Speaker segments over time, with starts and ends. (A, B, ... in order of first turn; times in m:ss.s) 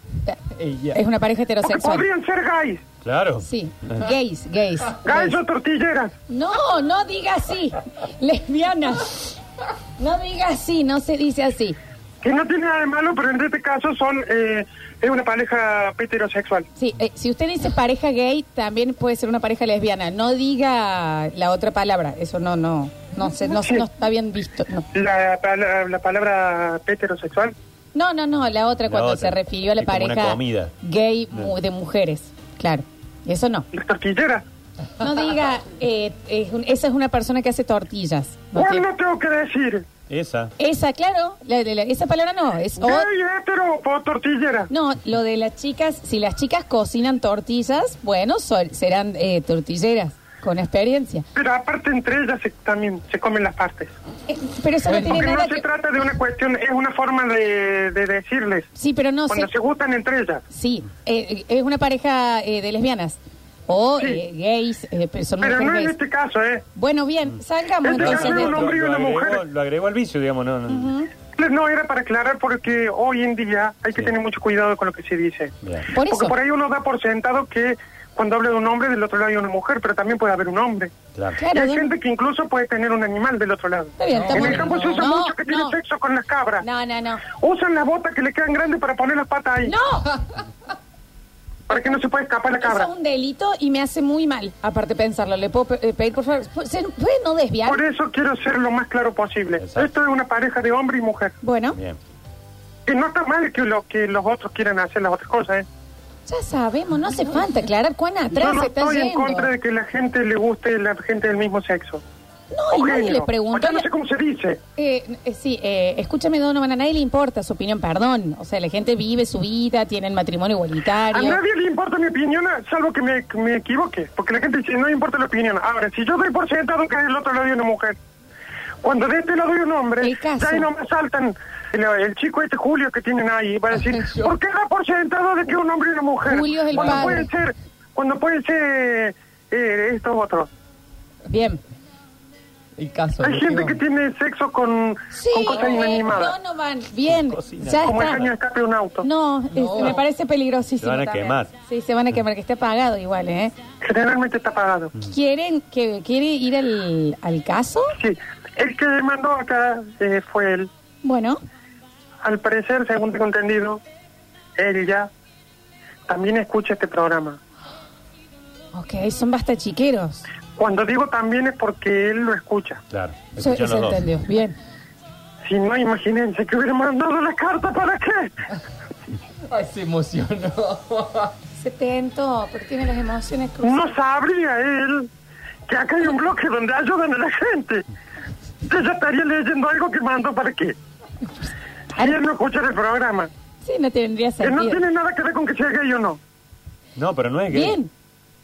0:00.3-0:02.1 A
0:00.6-0:01.0 B
0:01.6-0:02.8 C
0:03.0-0:03.5 D
0:03.4-0:05.4 A
0:05.0-0:06.1 C
0:06.3-0:09.3 A
0:10.0-0:11.8 A
0:12.2-0:16.7 C
0:16.8-0:24.9 A
0:24.9-0:27.6 C
0:27.9-0:33.7 A
0:28.9-0:30.7 D
0:33.7-0:34.4 C
0:35.0-0:38.9 A
0:38.6-0:39.9 C
0:40.1-0:40.5 D
0:40.6-0:43.1 A
0:42.8-0:44.7 C
0:44.7-0:51.3 A
0:51.4-0:53.9 C
0:54.3-0:55.6 A
0:54.9-0:58.7 C
0:58.8-0:59.5 A
0:59.3-1:00.4 C
1:00.5-1:06.0 A
1:05.4-1:06.7 C
1:06.8-1:08.7 A
1:07.8-1:09.4 C
1:08.0-1:11.0 D
1:10.7-1:11.1 A
1:11.4-1:15.5 C
1:15.6-1:15.9 D
1:15.9-1:16.4 A
1:16.1-1:20.9 C
1:21.4-1:21.9 A
1:21.5-1:26.7 C
1:24.0-1:25.8 A
1:24.1-1:24.6 B
1:26.6-1:27.3 A
1:27.3-1:29.8 C
1:29.6-1:30.2 A
1:31.7-1:32.9 C
1:32.6-1:37.8 A
1:37.7-1:41.4 C
1:39.6-1:39.9 D
1:41.4-1:41.8 A
1:42.9-1:45.7 C
1:46.3-1:49.5 A
1:48.3-1:52.0 C
1:52.5-1:53.9 A
1:52.7-1:54.6 C
1:54.8-2:01.4 A
2:01.1-2:08.0 C
2:08.8-2:20.5 C
2:10.0-2:10.7 A
2:14.0-2:14.3 B
2:16.2-2:17.3 A
2:16.8-2:17.2 B
2:21.3-2:21.6 A
2:22.8-2:23.8 B
2:23.2-2:26.4 C
2:25.1-2:28.2 A
2:27.1-2:28.3 D
2:27.8-2:29.1 C
2:29.0-2:33.5 A
2:29.5-2:30.0 B
2:30.8-2:31.5 D
2:33.8-2:34.9 C
2:35.0-2:38.0 A
2:38.0-2:40.7 C
2:41.0-2:41.4 A
2:42.2-2:43.8 C
2:44.6-2:45.1 C
2:46.1-2:47.4 C
2:48.7-2:50.3 A
2:50.6-2:52.8 C
2:52.9-2:54.1 D
2:53.4-2:54.6 A
2:55.4-2:58.3 C
2:59.5-3:01.3 B
3:01.6-3:04.0 A
3:03.6-3:05.1 C
3:05.7-3:07.9 C
3:08.7-3:10.8 C
3:12.0-3:13.3 C
3:13.6-3:14.8 A
3:14.4-3:16.2 C
3:17.0-3:17.8 D
3:17.5-3:17.9 A